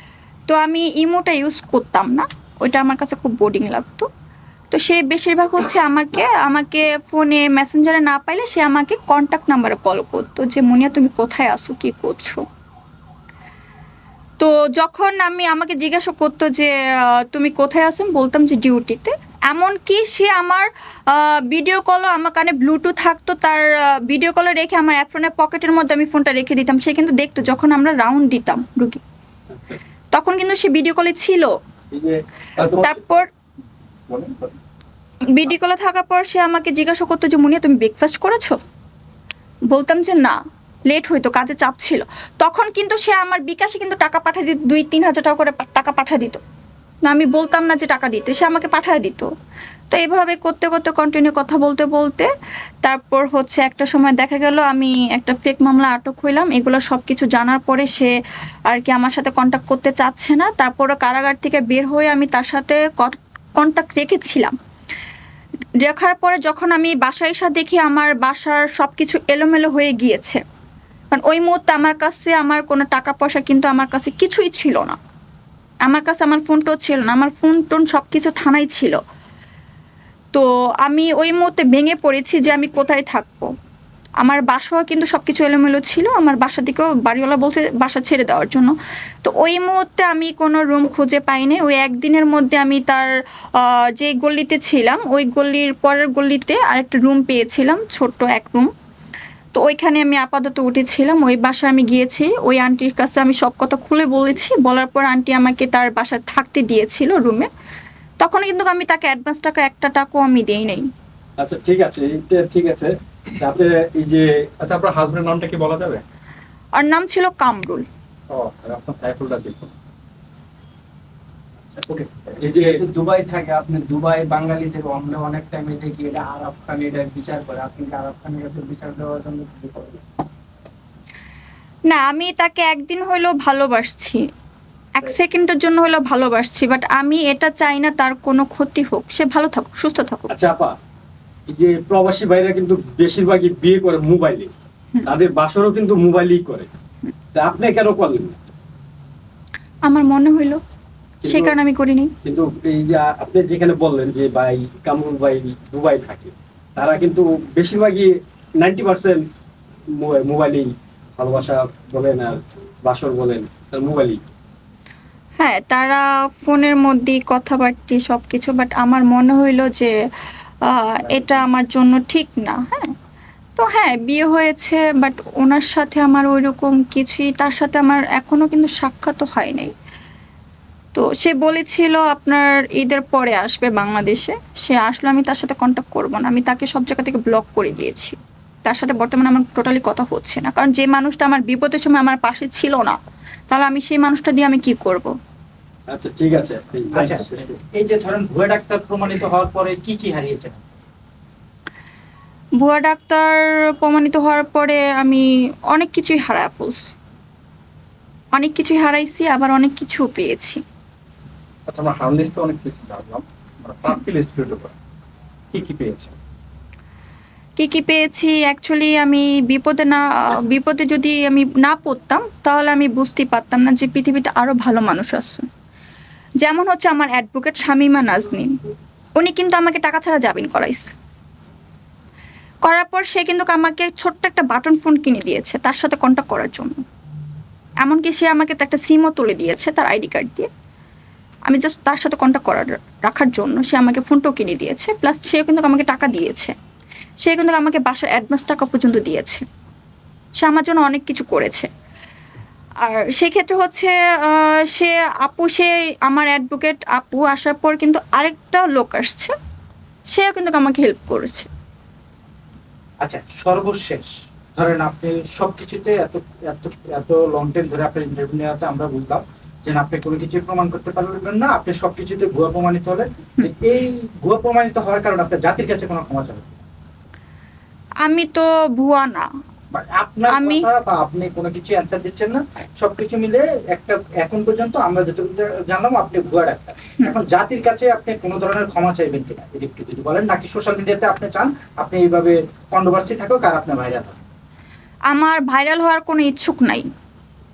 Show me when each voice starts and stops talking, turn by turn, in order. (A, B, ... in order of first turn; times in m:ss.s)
0:00.5-0:04.1 A
0:04.7-0:12.4 A
0:14.4-0:29.0 A
0:29.5-0:29.8 B
0:30.1-0:31.5 A
0:31.9-0:33.3 B
0:32.6-0:33.3 A
0:34.1-0:34.6 C
0:35.3-0:38.6 A
0:39.7-0:40.4 A
0:40.9-0:46.4 A
0:47.0-0:49.3 A
0:49.9-0:52.3 A
0:52.8-0:58.1 A
0:58.7-1:04.6 A
1:05.8-1:10.4 A
1:11.1-1:15.0 A
1:15.8-1:19.0 A
1:20.3-1:23.5 A
1:24.2-1:38.7 A
1:39.5-1:47.5 A
1:48.2-1:50.9 A
1:51.4-1:54.3 B
1:54.6-1:56.0 C
1:56.8-1:57.8 A
1:58.3-1:59.7 C
2:01.9-2:02.5 C
2:02.4-2:02.8 B
2:02.4-2:10.0 D
2:11.9-2:14.2 A
2:15.0-2:20.3 A
2:20.3-2:20.8 B
2:21.5-2:24.5 B
2:25.1-2:26.7 B
2:27.3-2:28.4 B
2:29.8-2:30.6 A
2:31.2-2:31.6 B
2:31.2-2:32.1 A
2:32.2-2:39.2 B
2:40.0-2:44.2 B
2:45.4-2:49.9 A
2:50.7-2:52.9 A
2:53.6-2:59.7 A
3:00.9-3:13.0 A
3:13.5-3:15.1 A
3:15.9-3:17.6 B
3:16.9-3:20.7 E
3:22.6-3:26.9 A
3:28.3-3:30.6 A
3:31.7-3:34.7 C
3:35.5-3:36.1 C
3:37.6-3:45.4 A
3:46.4-3:48.5 A
3:49.2-3:50.9 A
3:52.6-3:56.8 A
3:57.8-4:00.5 A
4:01.5-4:06.5 A
4:07.2-4:09.5 A
4:10.4-4:11.7 A
4:12.8-4:19.3 A
4:20.1-4:21.5 A
4:23.0-4:36.6 E
4:38.0-4:39.3 A
4:39.7-4:54.2 E
4:40.3-4:40.7 A
4:55.1-4:56.9 A